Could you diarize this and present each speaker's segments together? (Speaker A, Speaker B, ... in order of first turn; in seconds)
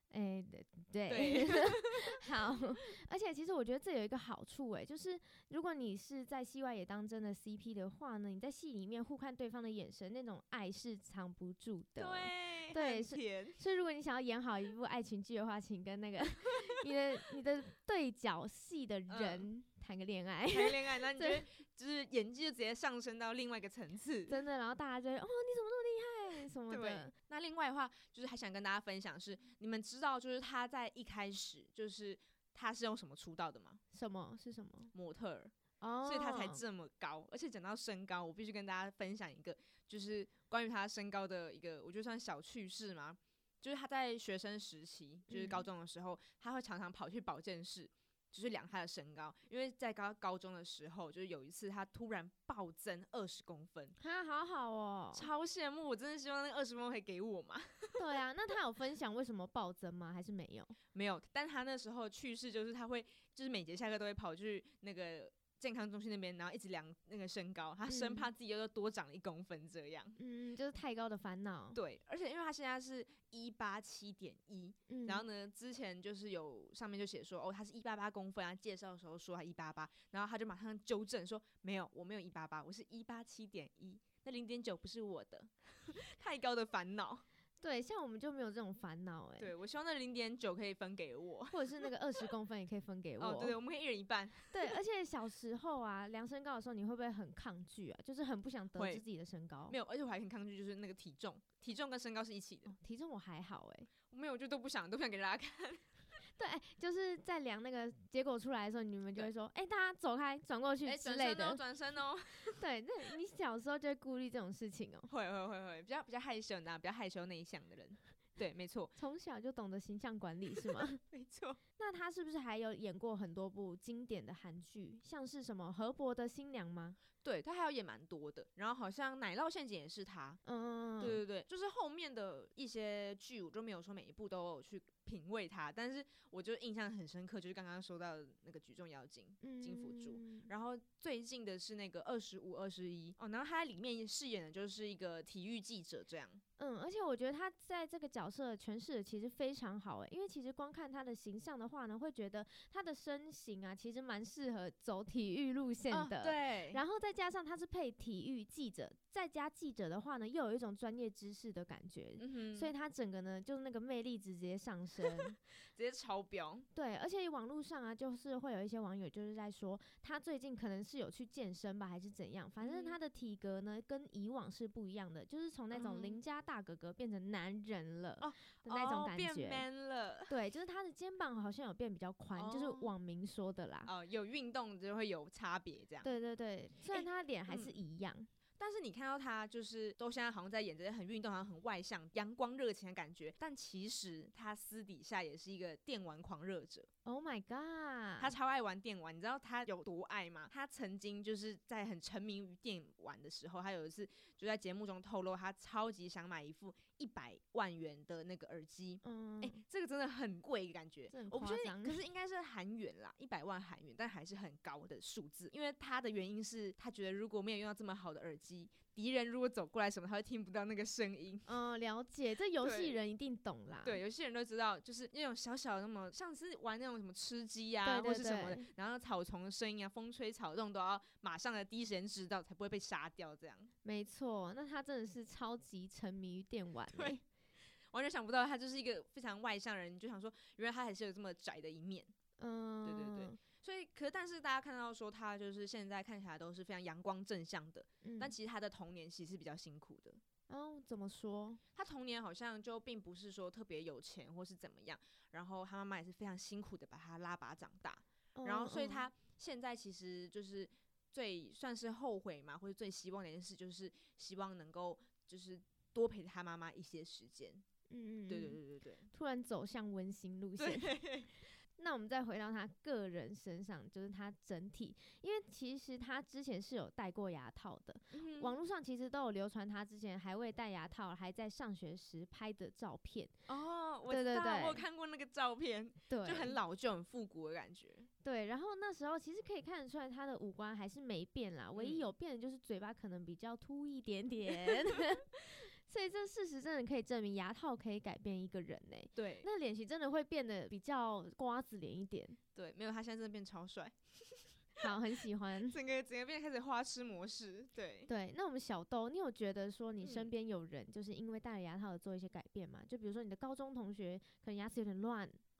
Speaker A: 0.1-21.4, 24.3-27.1, 33.9-34.9, 35.8-36.6, 45.3-45.7, 54.0-55.3, 58.0-60.8, 67.9-68.3, 70.2-71.8, 74.9-75.2, 87.6-89.5, 91.5-93.6, 94.5-99.8, 102.7-103.9, 106.4-111.6, 112.6-115.1, 119.0-121.0, 121.8-127.0, 130.4-131.2, 139.4-140.5, 146.6-165.4, 166.7-179.7, 180.3-183.9, 186.0-188.3, 197.1-198.3, 209.0-209.6, 211.1-212.0, 221.5-224.0, 227.8-228.7, 233.8-237.2, 242.4-243.4, 248.0-248.4, 250.5-251.6, 258.4-259.1, 267.9-268.6, 269.1-271.0, 271.8-283.3, 284.1-284.9, 286.1-286.6, 288.2-302.4, 304.8-305.8, 308.1-315.4
Speaker B: 1.1-2.2, 12.0-13.6, 19.1-19.5, 20.5-24.4, 26.7-33.8, 34.9-35.5, 36.0-54.0, 55.1-58.0, 60.9-70.2, 71.7-87.2, 89.4-92.2, 93.2-94.7, 98.8-99.0, 99.7-102.7, 104.1-105.8, 110.8-112.6, 115.1-118.9, 121.1-121.6, 127.2-130.4, 131.0-146.4, 155.9-156.8, 162.2-162.7, 165.7-166.7, 172.6-173.0, 175.7-176.2, 178.2-180.3, 182.4-182.9, 183.8-186.1, 186.9-187.8, 188.6-196.9, 198.2-221.5, 222.6-223.0, 223.8-233.7, 237.9-242.1, 242.8-250.2, 251.8-267.6, 268.3-269.1, 270.6-271.3, 278.1-278.6, 283.5-288.1, 291.8-292.1, 299.1-299.5, 302.6-304.9, 305.6-308.1, 310.0-310.3